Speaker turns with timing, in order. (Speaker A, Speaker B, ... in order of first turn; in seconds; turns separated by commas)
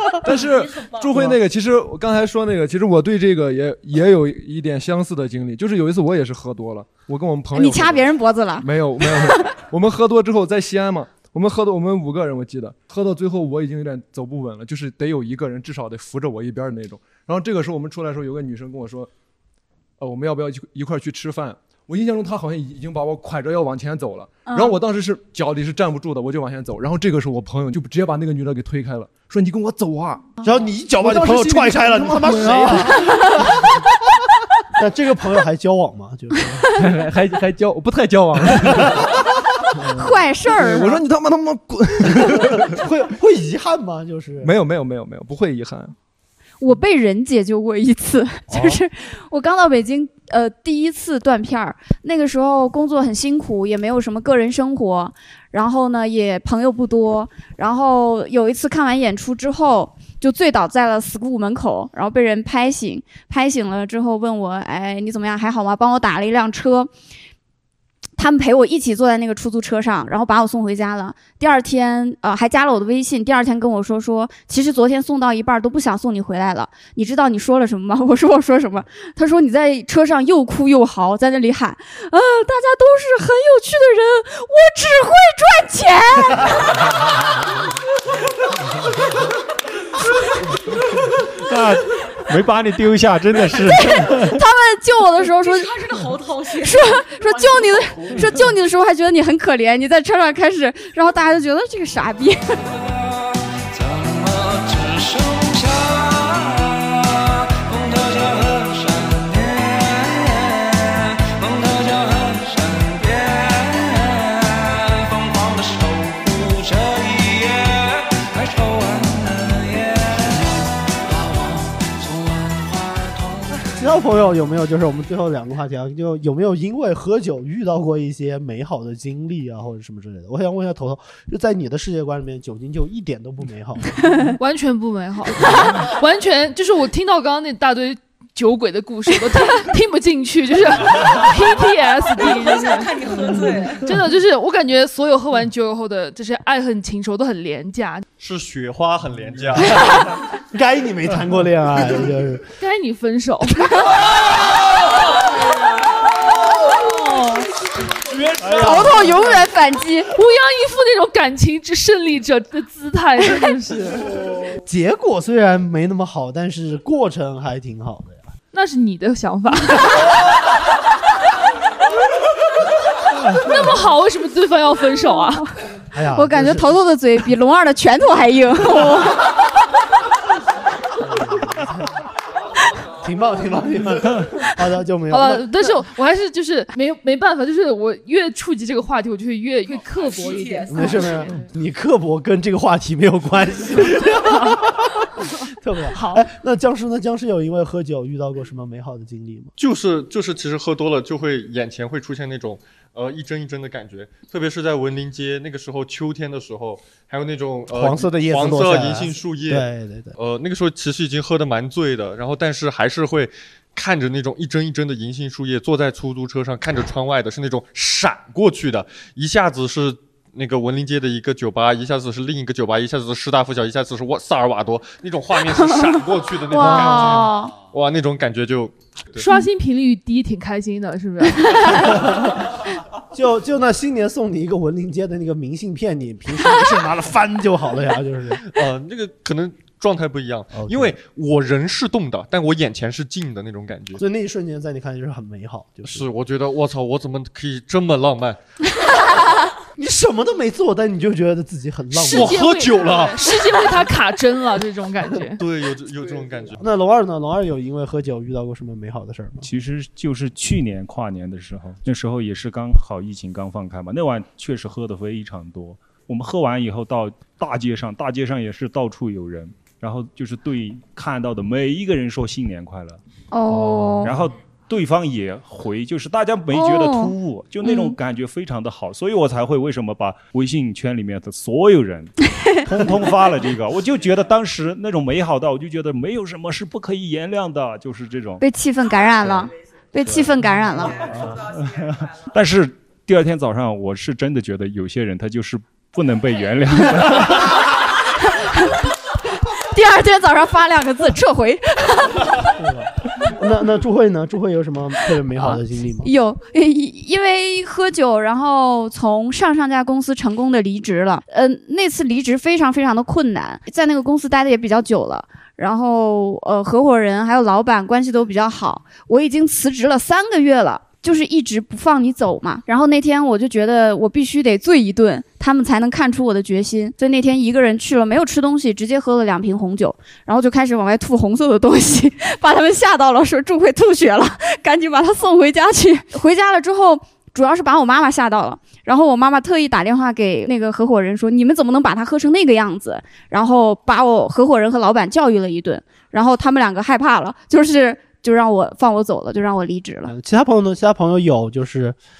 Speaker A: 0.2-8.1, Speaker B: 7.5-9.4, Speaker A: 8.6-19.1, Speaker A: 20.0-30.3, Speaker B: 24.4-24.8, Speaker C: 30.4-33.7, Speaker A: 31.0-33.1, Speaker B: 33.0-33.3, Speaker C: 34.8-36.6, Speaker A: 36.8-39.1, Speaker C: 38.6-39.1, Speaker A: 39.9-42.8, Speaker B: 40.0-41.0, Speaker C: 42.6-44.5, Speaker A: 44.4-45.9, Speaker B: 46.6-66.9, Speaker B: 68.2-86.9, Speaker D: 91.4-94.4, Speaker B: 93.7-95.8, Speaker E: 95.3-97.8, Speaker B: 96.6-102.7, Speaker F: 103.6-123.8, Speaker C: 123.5-134.2, Speaker G: 134.4-148.0, Speaker E: 142.2-143.9, Speaker H: 148.2-149.8, Speaker C: 149.7-150.0, Speaker C: 150.5-152.4, Speaker G: 152.6-153.8, Speaker G: 156.8-157.4, Speaker D: 158.4-159.2, Speaker B: 158.4-160.1, Speaker G: 160.1-164.1, Speaker C: 164.6-168.2, Speaker G: 168.5-169.9, Speaker G: 173.3-175.5, Speaker C: 175.9-176.7, Speaker B: 176.1-179.2, Speaker C: 181.0-181.8, Speaker C: 183.0-185.7, Speaker G: 185.1-191.4, Speaker E: 190.0-191.2, Speaker C: 190.7-199.5, Speaker G: 195.9-196.2, Speaker H: 199.6-229.2, Speaker C: 207.7-210.2, Speaker B: 226.5-227.5, Speaker G: 229.2-231.8, Speaker C: 233.1-238.4, Speaker H: 238.4-244.0, Speaker C: 240.6-240.9, Speaker C: 243.9-246.1, Speaker H: 245.9-248.4, Speaker C: 249.8-252.9, Speaker G: 251.9-255.4, Speaker H: 252.1-253.2, Speaker H: 255.4-256.6, Speaker C: 256.6-259.5, Speaker D: 259.4-282.1, Speaker B: 273.3-274.2, Speaker B: 276.5-278.0, Speaker D: 282.6-288.4, Speaker B: 288.4-291.1, Speaker D: 290.0-290.4, Speaker D: 291.0-297.5, Speaker B: 298.3-298.8, Speaker B: 299.6-302.5, Speaker C: 302.6-306.1, Speaker B: 305.4-350.1, Speaker C: 350.1-351.9